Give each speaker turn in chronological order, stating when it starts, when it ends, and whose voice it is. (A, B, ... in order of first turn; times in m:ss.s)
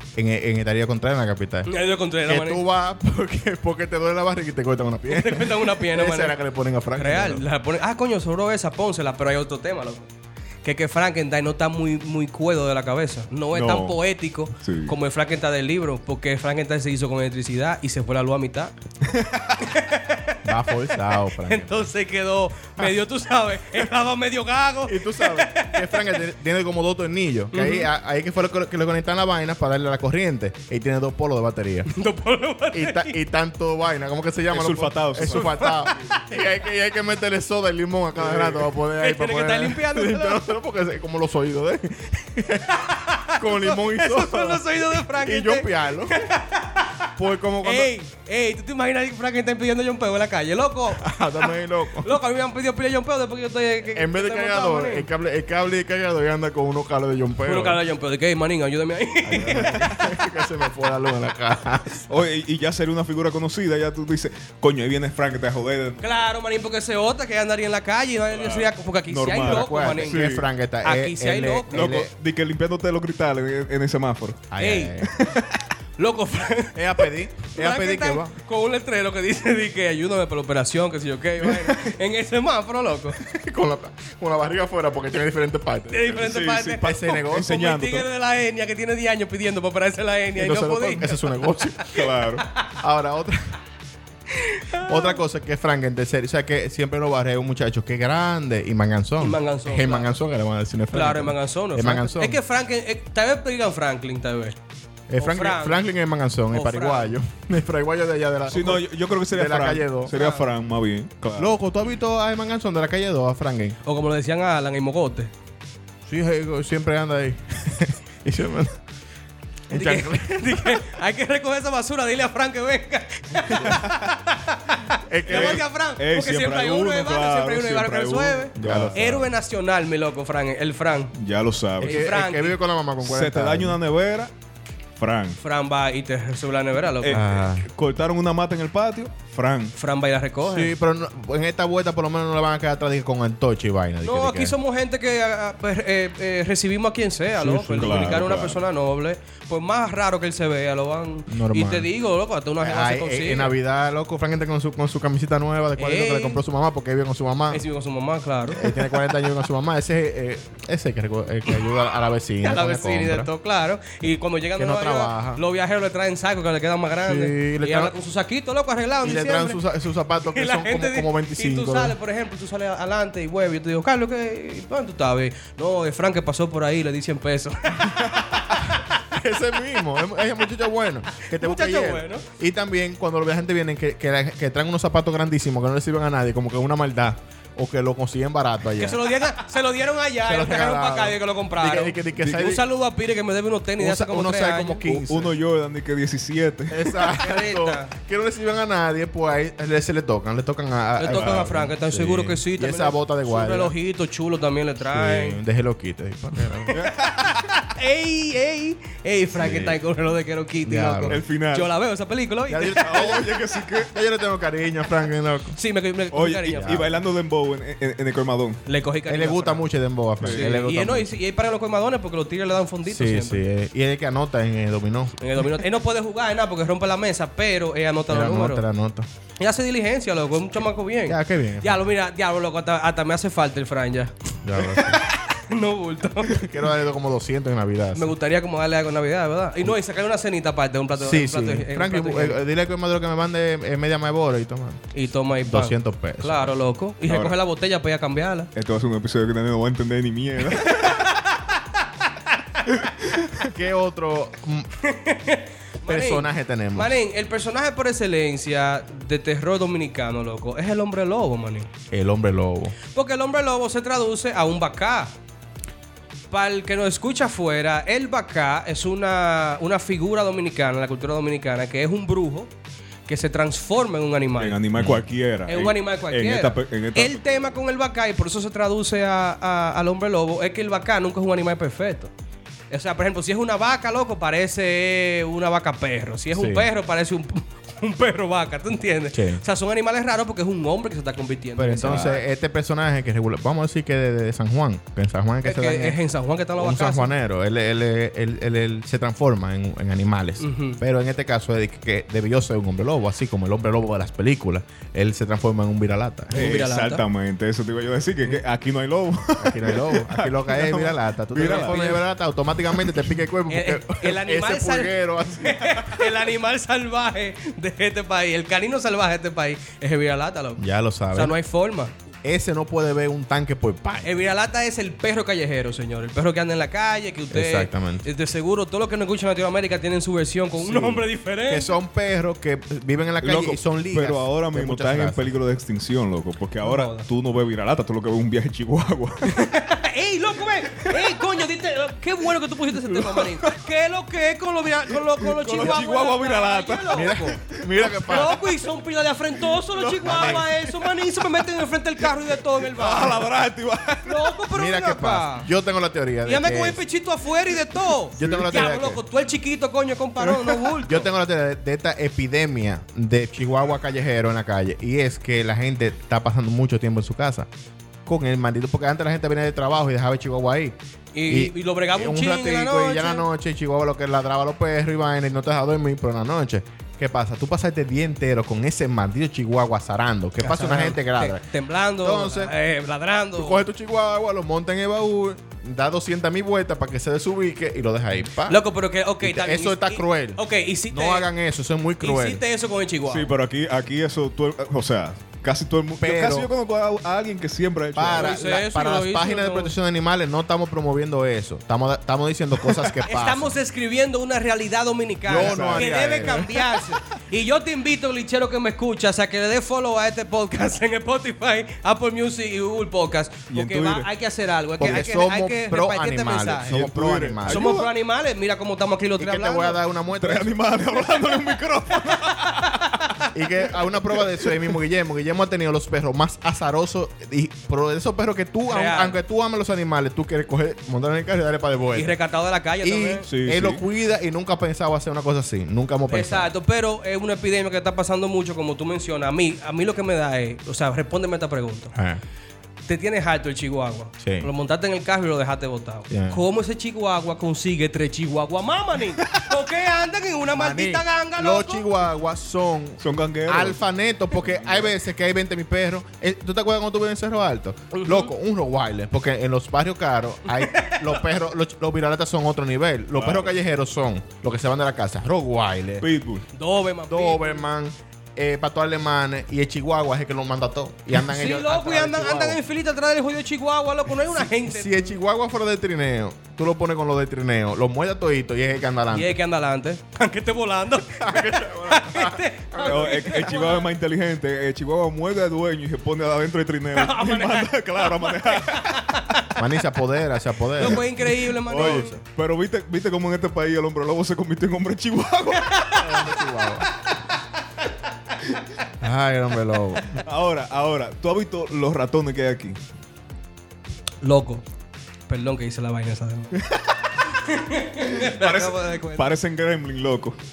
0:00.2-0:01.7 A
0:01.7-0:02.6 B
0:02.2-0:07.5 A
0:05.1-0:06.4 B
0:07.0-0:10.1 B
0:10.6-0:18.7 B
0:13.5-0:14.0 C
0:14.6-0:14.9 C
0:19.1-0:19.5 C
0:19.6-0:20.4 B
0:20.4-0:21.9 A
0:21.3-0:26.2 B
0:24.8-0:31.9 A
0:27.5-0:27.9 B
0:31.9-0:33.2 B
0:32.7-0:46.2 A
0:34.5-0:36.1 C
0:35.2-0:36.2 B
0:38.2-0:38.7 C
0:39.0-0:40.5 B
0:42.7-0:47.1 B
0:47.2-0:47.9 A
0:47.6-0:55.1 B
0:51.0-0:52.1 A
0:53.9-0:57.8 A
0:57.4-1:00.0 B
0:59.2-1:02.1 A
0:59.5-0:59.9 C
1:02.1-1:06.0 C
1:06.0-1:10.2 B
1:08.3-1:10.5 C
1:09.4-1:12.1 A
1:10.8-1:12.0 B
1:11.7-1:14.5 C
1:14.5-1:15.1 A
1:14.6-1:15.0 B
1:15.0-1:15.6 C
1:16.0-1:23.2 B
1:16.8-1:18.4 A
1:23.2-1:27.6 A
1:25.9-1:32.7 B
1:26.1-1:28.1 C
1:30.3-1:31.9 A
1:31.9-1:32.5 C
1:32.8-1:33.6 A
1:34.3-1:35.2 B
1:34.7-1:42.4 A
1:39.2-1:40.2 B
1:40.9-1:44.6 B
1:45.1-1:50.1 A
1:45.2-1:45.8 B
1:46.5-1:47.1 B
1:48.5-1:51.5 C
1:50.1-1:50.5 B
1:51.4-1:53.8 A
1:53.8-1:55.3 B
1:56.1-1:58.8 A
1:59.7-2:00.7 A
1:59.7-2:11.1 B
2:03.5-2:04.1 C
2:05.1-2:05.6 A
2:05.3-2:09.3 C
2:08.6-2:09.3 A
2:11.2-2:12.1 C
2:11.8-2:13.8 A
2:11.8-2:12.6 B
2:13.0-2:14.3 C
2:15.0-2:15.4 C
2:15.4-2:17.2 B
2:17.0-2:19.8 C
2:17.1-2:17.7 A
2:19.8-2:20.7 B
2:20.4-2:24.6 A
2:24.0-2:33.5 B
2:27.4-2:28.4 A
2:27.7-2:28.6 C
2:31.3-2:31.9 A
2:32.6-2:37.6 A
2:35.8-2:36.4 B
2:37.5-2:39.0 B
2:38.5-2:43.3 A
2:42.4-2:49.6 B
2:44.6-2:45.4 A
2:47.0-2:47.9 A
2:49.0-2:52.0 A
2:50.2-2:58.8 B
2:58.9-3:09.1 A
3:01.2-3:02.2 B
3:08.8-3:14.8 B
3:10.2-3:12.6 A
3:13.8-3:15.3 A
3:14.8-3:17.0 C
3:16.7-3:23.7 A
3:17.1-3:17.9 B
3:21.0-3:25.4 B
3:21.1-3:21.5 C
3:24.9-3:26.8 A
3:26.7-3:33.0 B
3:26.7-3:27.4 C
3:29.4-3:29.8 A
3:30.6-3:31.2 A
3:31.1-3:31.7 C
3:32.5-3:35.6 A
3:32.7-3:33.9 C
3:35.6-3:36.9 B
3:36.1-3:38.6 C
3:36.5-3:36.9 A
3:38.7-3:39.7 B
3:39.1-3:41.2 A
3:40.2-3:40.5 C
3:40.3-3:43.4 B
3:42.9-3:45.1 A
3:45.2-3:48.6 B
3:48.1-3:49.1 A
3:49.4-3:56.5 B
3:51.0-3:51.9 A
3:54.4-3:55.0 A
3:56.2-3:58.1 A
3:58.0-4:02.4 B
4:01.0-4:04.8 A
4:04.9-4:08.5 B
4:05.4-4:06.5 A
4:07.1-4:07.4 C
4:08.6-4:11.1 C
4:10.6-4:12.4 B
4:12.7-4:13.4 C
4:13.5-4:14.7 A
4:14.8-4:21.7 B
4:15.9-4:17.0 A
4:21.9-4:22.8 A
4:22.9-4:25.1 B
4:26.3-4:32.5 B
4:33.1-4:34.6 B
4:34.4-4:37.5 C
4:35.5-4:42.1 B
4:42.7-4:52.2 B
4:46.3-4:46.7 A
4:49.1-4:49.4 A
4:51.6-4:56.0 A
4:51.8-4:52.1 C
4:55.4-4:57.1 B
4:56.6-5:06.5 A
5:00.4-5:00.8 B
5:06.3-5:07.0 B
5:06.3-5:12.0 C
5:09.4-5:15.8 A
5:11.4-5:12.0 B
5:12.7-5:13.0 C
5:13.5-5:21.9 B
5:20.6-5:21.4 A
5:22.2-5:24.3 A
5:24.0-5:31.7 B
5:27.3-5:28.0 A
5:30.7-5:35.3 A
5:33.2-5:39.4 C
5:36.6-5:37.1 B
5:39.3-5:47.4 B
5:40.8-5:41.1 C
5:43.0-5:43.5 C
5:45.2-5:48.4 C
5:46.9-5:48.4 A
5:48.0-5:53.3 B
5:49.4-5:51.4 C
5:50.0-5:50.4 A
5:52.0-5:54.4 C
5:54.0-5:55.5 B
5:54.5-5:56.8 A
5:56.2-6:01.1 B
5:58.2-5:58.5 C
5:58.2-5:59.0 A
6:00.2-6:00.6 C
6:00.8-6:07.5 A
6:08.1-6:21.5 A
6:11.1-6:13.3 B
6:20.4-6:23.6 B
6:22.0-6:22.5 A
6:23.4-6:28.6 A
6:28.5-6:31.3 B
6:29.2-6:32.4 A
6:32.0-6:33.3 B
6:33.1-6:38.4 C
6:36.0-6:36.5 A
6:38.0-6:43.6 A
6:38.1-6:39.7 B
6:43.1-6:56.8 B
6:45.3-6:46.7 A
6:45.3-6:46.5 C
6:53.5-6:54.1 C
6:54.8-6:57.8 A
6:56.7-6:57.9 C
6:57.5-6:59.8 B
6:59.2-7:00.6 A
7:00.1-7:03.2 C
7:02.3-7:03.3 B
7:03.3-7:12.2 A
7:08.7-7:09.2 B
7:12.0-7:13.3 B
7:12.8-7:16.5 A
7:13.3-7:13.8 C
7:16.1-7:21.9 B
7:21.9-7:22.2 A
7:22.9-7:31.9 B
7:24.2-7:24.5 A
7:26.1-7:26.4 A
7:30.5-7:46.1 A
7:33.0-7:33.8 C
7:34.4-7:34.9 C
7:38.0-7:38.2 B
7:40.5-7:41.3 B
7:43.2-7:43.5 C
7:46.0-7:46.5 C
7:46.5-7:47.6 B
7:47.1-7:52.6 A
7:51.2-7:55.2 B
7:54.3-7:59.4 A
7:59.1-8:03.9 B
8:01.2-8:03.3 A
8:02.8-8:09.2 C
8:07.0-8:09.5 B
8:09.6-8:11.1 A
8:10.8-8:12.2 B
8:10.8-8:15.9 C
8:11.7-8:12.1 A
8:15.7-8:16.0 B
8:16.0-8:16.9 A
8:19.0-8:20.2 A
8:20.2-8:22.8 C
8:24.2-8:24.6 B
8:25.3-8:26.6 B
8:26.6-8:27.2 C
8:27.2-8:29.3 B
8:28.0-8:30.4 C